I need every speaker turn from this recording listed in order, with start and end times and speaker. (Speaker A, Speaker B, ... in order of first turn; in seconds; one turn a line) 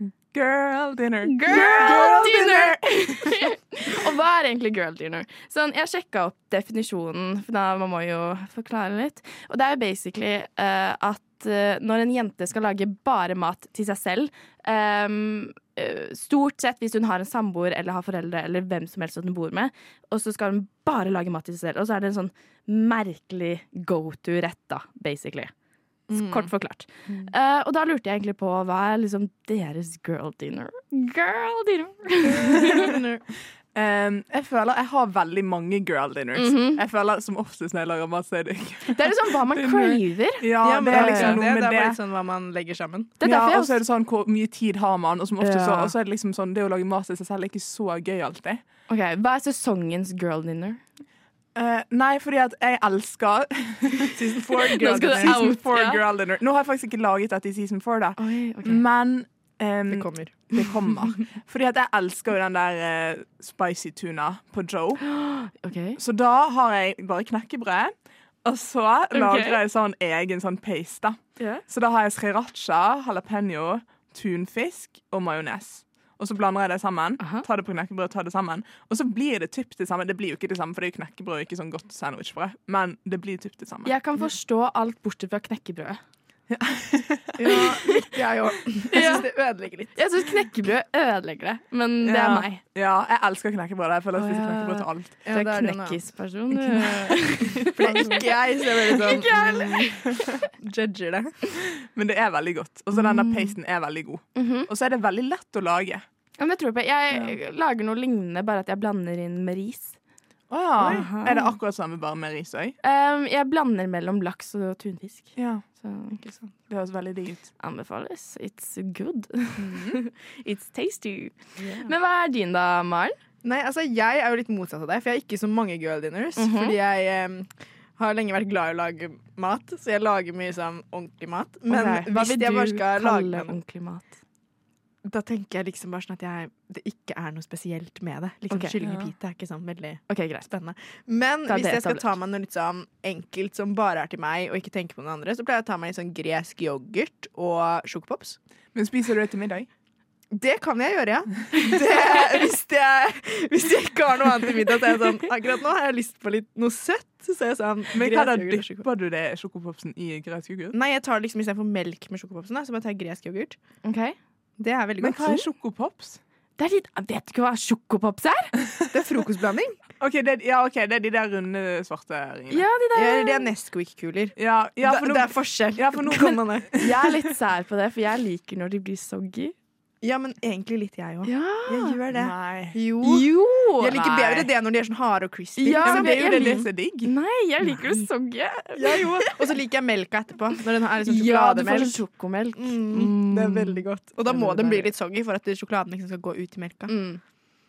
Speaker A: 0.3-3.4
Speaker B: 1.2-25.5
Speaker C: 26.1-26.5
Speaker B: 26.1-33.0
Speaker C: 32.6-33.2
Speaker A: 33.7-42.0
Speaker B: 36.4-36.8
Speaker B: 38.9-41.4
Speaker C: 40.6-43.2
Speaker B: 43.2-43.8
Speaker A: 43.2-48.6
Speaker B: 45.4-46.0
Speaker B: 48.9-50.8
Speaker A: 51.5-65.0
Speaker C: 54.1-55.5
Speaker B: 54.5-56.0
Speaker B: 58.2-58.9
Speaker C: 59.9-60.6
Speaker B: 65.0-66.0
Speaker A: 66.0-67.9
Speaker A: 68.4-83.9
Speaker B: 69.1-69.6
Speaker B: 71.4-71.6
Speaker B: 77.2-77.5
Speaker B: 83.8-86.0
Speaker A: 86.5-87.4
Speaker C: 87.4-90.0
Speaker B: 87.6-88.1
Speaker B: 88.9-89.3
Speaker B: 90.0-92.6
Speaker A: 92.2-95.1
Speaker B: 94.1-100.5
Speaker C: 95.3-96.0
Speaker C: 97.8-99.8
Speaker A: 97.8-98.1
Speaker C: 100.6-101.4
Speaker A: 101.9-106.0
Speaker B: 102.9-103.5
Speaker B: 104.3-104.7
Speaker B: 106.4-110.0
Speaker A: 110.5-112.8
Speaker B: 110.8-111.6
Speaker B: 112.8-116.2
Speaker A: 115.4-115.6
Speaker A: 116.7-117.5
Speaker B: 117.6-123.2
Speaker A: 119.6-120.0
Speaker C: 123.4-133.6
Speaker B: 126.4-126.8
Speaker B: 131.7-134.2
Speaker C: 135.1-148.4
Speaker B: 138.5-138.8
Speaker A: 138.8-139.1
Speaker B: 140.1-140.5
Speaker B: 141.5-142.2
Speaker A: 148.7-149.7
Speaker C: 150.3-158.9
Speaker B: 151.7-152.1
Speaker A: 157.9-160.7
Speaker C: 160.7-163.6
Speaker B: 163.8-164.2
Speaker C: 164.6-165.5
Speaker A: 165.0-166.2
Speaker B: 166.6-168.5
Speaker C: 168.9-169.8
Speaker A: 170.0-172.6
Speaker B: 172.5-173.5
Speaker C: 172.9-176.8
Speaker A: 174.4-176.9
Speaker B: 176.8-179.6
Speaker C: 180.0-183.3
Speaker B: 181.2-182.0
Speaker A: 182.1-182.8
Speaker B: 183.0-184.4
Speaker C: 183.8-186.7
Speaker B: 185.6-189.5
Speaker A: 185.8-187.1
Speaker C: 188.8-192.0
Speaker B: 191.1-194.9
Speaker C: 192.6-196.9
Speaker B: 196.9-197.2